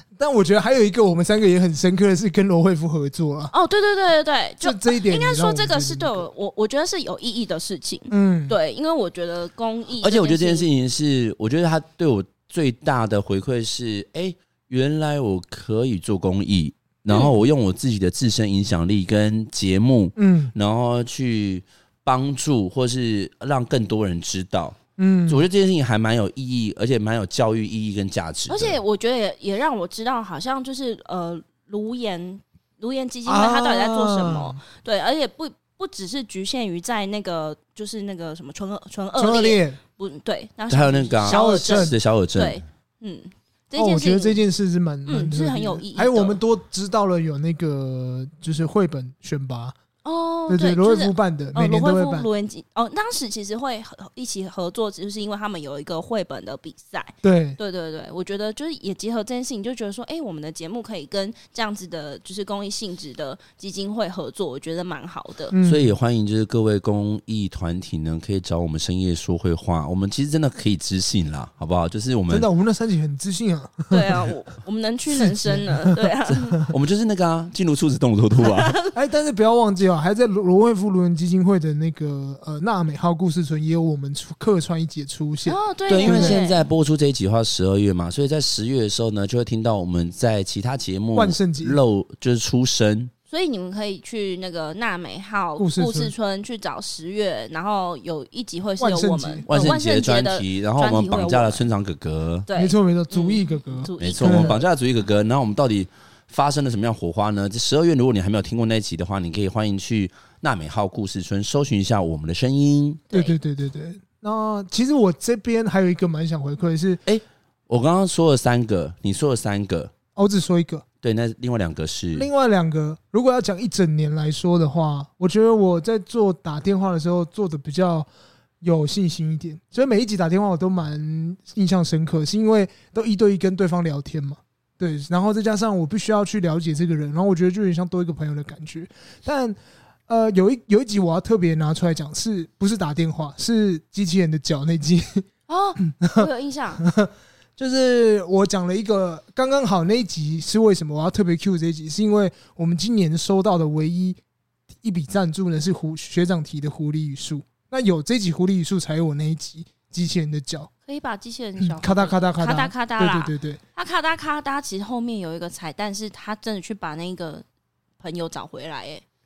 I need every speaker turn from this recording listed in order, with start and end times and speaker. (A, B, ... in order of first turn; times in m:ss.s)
0:00.2-0:03.5 A
0:03.5-0:10.7 B
0:04.6-0:06.3 A
0:08.1-0:08.5 A
0:10.0-0:28.8 C
0:20.2-0:20.5 A
0:25.0-0:25.4 A
0:28.5-0:44.4 B
0:33.2-0:34.6 A
0:39.2-0:39.8 A
0:40.7-0:42.6 C
0:41.2-0:42.0 A
0:43.8-0:49.7 A
0:45.0-0:46.4 B
0:50.0-1:05.5 B
0:50.5-0:52.3 A
0:57.2-0:57.6 A
1:05.5-1:05.9 A
1:05.6-1:12.5 C
1:12.3-1:14.2 A
1:13.9-1:16.6 B
1:15.1-1:15.8 A
1:16.6-1:18.8 C
1:18.4-1:18.9 B
1:18.9-1:26.4 A
1:25.4-1:26.6 B
1:25.9-1:33.1 C
1:31.1-1:31.8 A
1:33.3-1:41.6 B
1:35.6-1:36.1 A
1:38.8-1:39.7 A
1:39.5-1:42.5 C
1:42.5-1:44.6 B
1:42.5-1:44.6 A
1:44.0-1:53.0 C
1:53.1-1:53.3 B
1:53.1-1:57.0 A
1:57.0-1:59.9 C
2:00.2-2:00.8 A
2:01.0-2:02.3 C
2:02.1-2:08.1 A
2:08.6-2:19.6 A
2:20.1-2:25.2 A
2:25.5-2:26.8 B
2:26.0-2:26.3 A
2:26.8-2:34.2 A
2:34.8-2:40.7 A
2:40.8-2:47.4 B
2:41.6-2:43.6 A
2:48.0-2:49.0 B